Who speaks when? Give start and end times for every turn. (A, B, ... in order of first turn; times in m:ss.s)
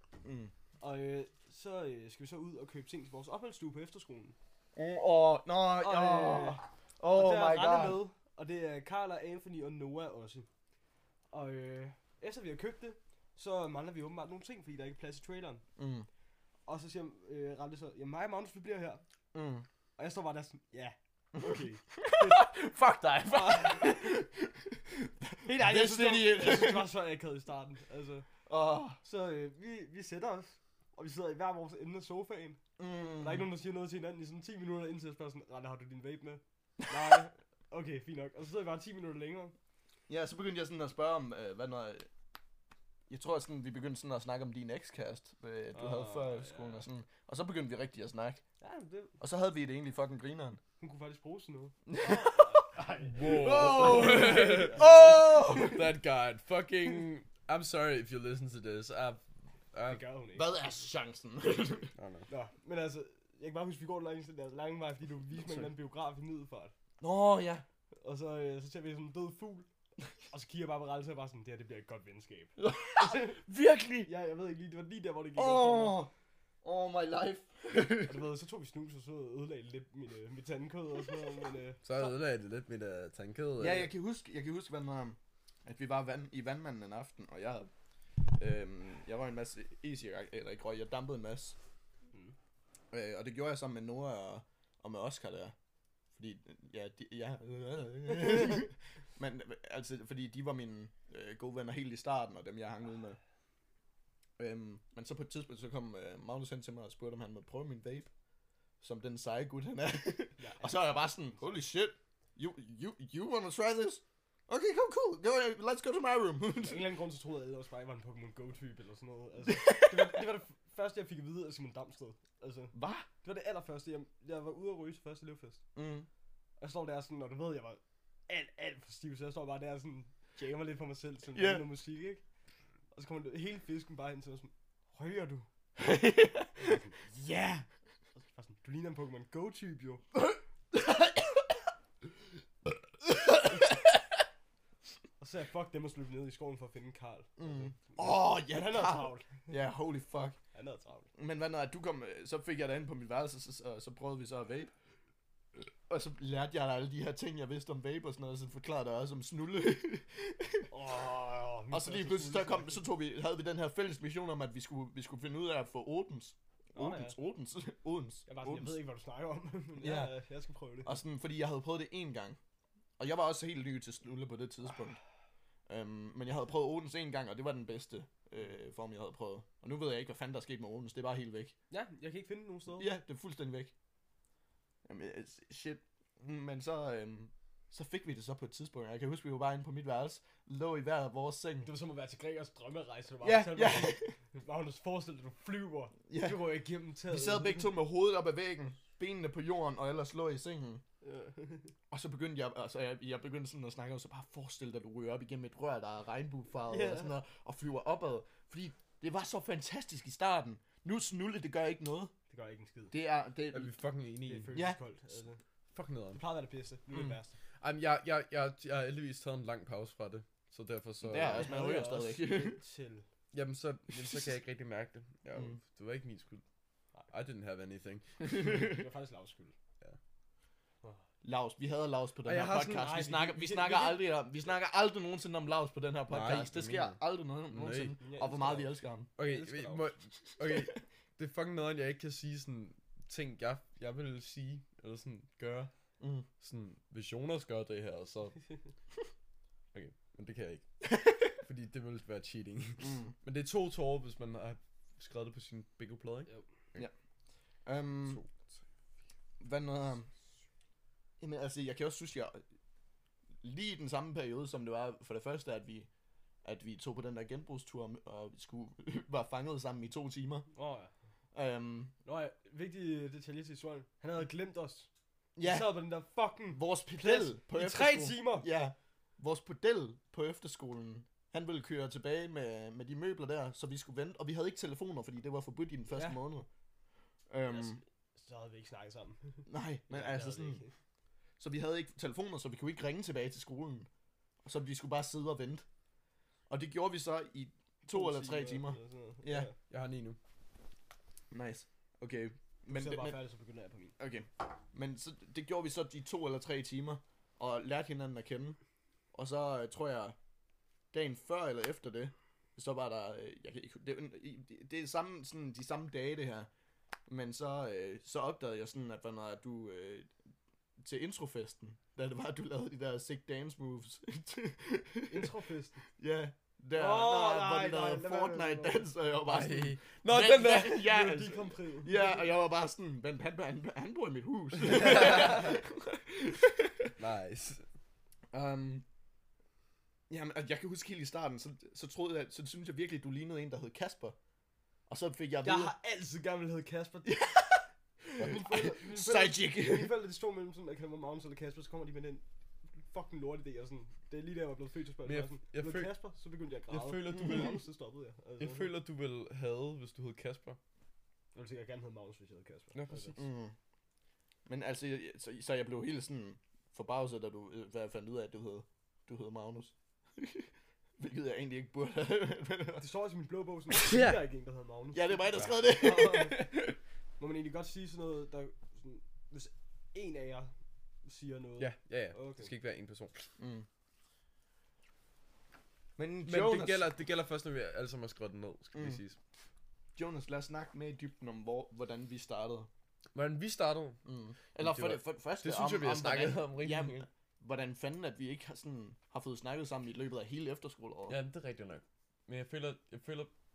0:00.2-0:00.5 A
0:00.8-0:04.4 B
0:04.8-0:08.0 A
0:05.8-0:10.5 B
0:11.3-0:15.6 B
0:15.8-0:16.1 A
0:16.7-0:19.0 B
0:19.3-0:19.6 A
0:20.0-0:22.5 B
0:21.3-0:26.9 A
0:23.2-0:24.1 B
0:25.4-0:28.2 B
0:28.4-0:29.0 A
0:29.0-0:32.6 B
0:32.8-0:33.5 A
0:33.2-0:39.5 B
0:40.1-0:42.1 A
0:43.1-0:48.4 A
0:45.7-0:46.8 B
0:48.6-0:49.2 B
0:49.2-0:50.6 A
0:50.8-0:55.8 B
0:51.9-0:55.8 A
0:53.0-1:00.0 C
0:59.9-1:00.5 B
1:00.3-1:01.9 A
1:02.0-1:02.3 C
1:02.3-1:06.7 B
1:07.0-1:07.6 A
1:08.0-1:09.7 B
1:10.3-1:13.4 B
1:12.6-1:14.1 A
1:14.0-1:16.0 B
1:15.4-1:16.1 A
1:16.6-1:18.3 A
1:17.8-1:21.8 B
1:21.8-1:23.9 C
1:23.6-1:27.7 A
1:28.3-1:31.6 A
1:32.9-1:35.5 A
1:36.1-1:43.2 A
1:44.4-1:48.1 A
1:48.8-1:56.9 A
1:50.4-1:51.6 B
1:56.6-2:02.7 B
1:59.4-2:00.2 A
2:02.7-2:03.1 A
2:03.2-2:05.6 B
2:05.7-2:06.1 A
2:06.6-2:12.2 B
2:11.3-2:11.6 A
2:12.9-2:15.5 B
2:15.8-2:17.6 A
2:16.6-2:17.1 B
2:18.2-2:20.0 B
2:20.2-2:21.5 A
2:23.0-2:23.8 A
2:25.2-2:29.4 B
2:27.4-2:30.4 A
2:30.5-2:31.1 B
2:31.2-2:34.7 A
2:35.5-2:40.7 A
2:40.7-2:42.8 B
2:41.7-2:48.8 A
2:46.7-2:47.2 B
2:48.3-2:51.0 B
2:49.8-2:50.1 A
2:50.8-2:52.4 A
2:53.0-2:55.0 A
2:55.7-3:01.5 A
3:01.7-3:02.9 B
3:02.7-3:03.7 A
3:04.8-3:11.7 A
3:11.6-3:17.7 B
3:13.2-3:14.1 A
3:16.1-3:16.4 A
3:17.1-3:20.8 A
3:21.0-3:21.7 B
3:21.9-3:32.1 A
3:26.7-3:27.1 B
3:32.3-3:32.9 B
3:32.9-3:33.7 A
3:33.5-3:34.5 C
3:34.3-3:35.4 B
3:34.5-3:34.8 A
3:35.7-3:36.2 C
3:36.1-3:37.3 B
3:37.6-3:41.5 C
3:41.0-3:42.6 A
3:41.3-3:43.0 B
3:43.3-3:46.4 C
3:43.9-3:44.4 A
3:47.1-3:48.2 C
3:48.2-3:48.8 A
3:48.4-3:49.5 B
3:51.2-3:59.1 A
3:52.2-3:53.0 C
3:52.7-3:54.1 B
3:56.1-3:57.0 C
3:57.5-3:58.0 C
3:58.0-3:59.9 B
3:59.2-4:05.7 C
4:06.0-4:06.3 A
4:06.4-4:08.4 C
4:09.7-4:16.9 C
4:12.8-4:13.1 A
4:17.6-4:18.2 A
4:19.4-4:20.1 A
4:21.2-4:22.4 A
4:23.4-4:25.9 A
4:26.4-4:30.5 A
4:30.5-4:30.9 B
4:31.3-4:31.9 A
4:32.0-4:34.9 B
4:35.4-4:35.8 A
4:35.4-4:38.5 B
4:36.5-4:46.5 A
4:45.9-4:46.2 B
4:47.3-4:47.8 A
4:47.4-4:50.7 B
4:49.5-4:50.6 A
4:51.4-4:53.9 A
4:54.4-4:55.6 A
4:56.5-4:59.5 A
4:57.9-4:59.6 B
4:59.7-5:00.2 C
5:01.3-5:03.2 A
5:02.7-5:03.9 B
5:04.0-5:08.6 A
5:09.1-5:10.2 A
5:10.9-5:16.5 A
5:17.1-5:20.1 A
5:20.8-5:25.3 A
5:25.1-5:25.8 B
5:26.0-5:37.0 A
5:26.7-5:28.9 B
5:29.2-5:30.9 C
5:30.7-5:32.3 B
5:34.6-5:35.5 C
5:34.6-5:35.5 B
5:37.0-5:37.6 C
5:38.3-5:38.8 A
5:40.1-5:44.2 A
5:44.9-5:45.7 A
5:45.4-5:47.2 B
5:47.0-5:49.9 A
5:48.2-5:52.2 B
5:52.8-5:58.7 B
5:55.0-5:56.0 C
5:56.7-5:57.6 C
5:58.4-6:00.6 C
6:01.3-6:03.2 B
6:02.7-6:03.2 C
6:03.2-6:03.5 A
6:04.4-6:12.8 A
6:12.8-6:16.4 B
6:13.8-6:14.2 C
6:14.9-6:16.8 A
6:17.2-6:20.5 B
6:21.0-6:22.5 B
6:21.6-6:23.3 C
6:23.4-6:23.7 A
6:26.0-6:26.9 A
6:26.2-6:29.2 C
6:28.7-6:29.0 A
6:30.0-6:32.7 A
6:33.1-6:34.0 C
6:34.0-6:41.2 A
6:34.6-6:37.1 C
6:41.1-6:43.3 C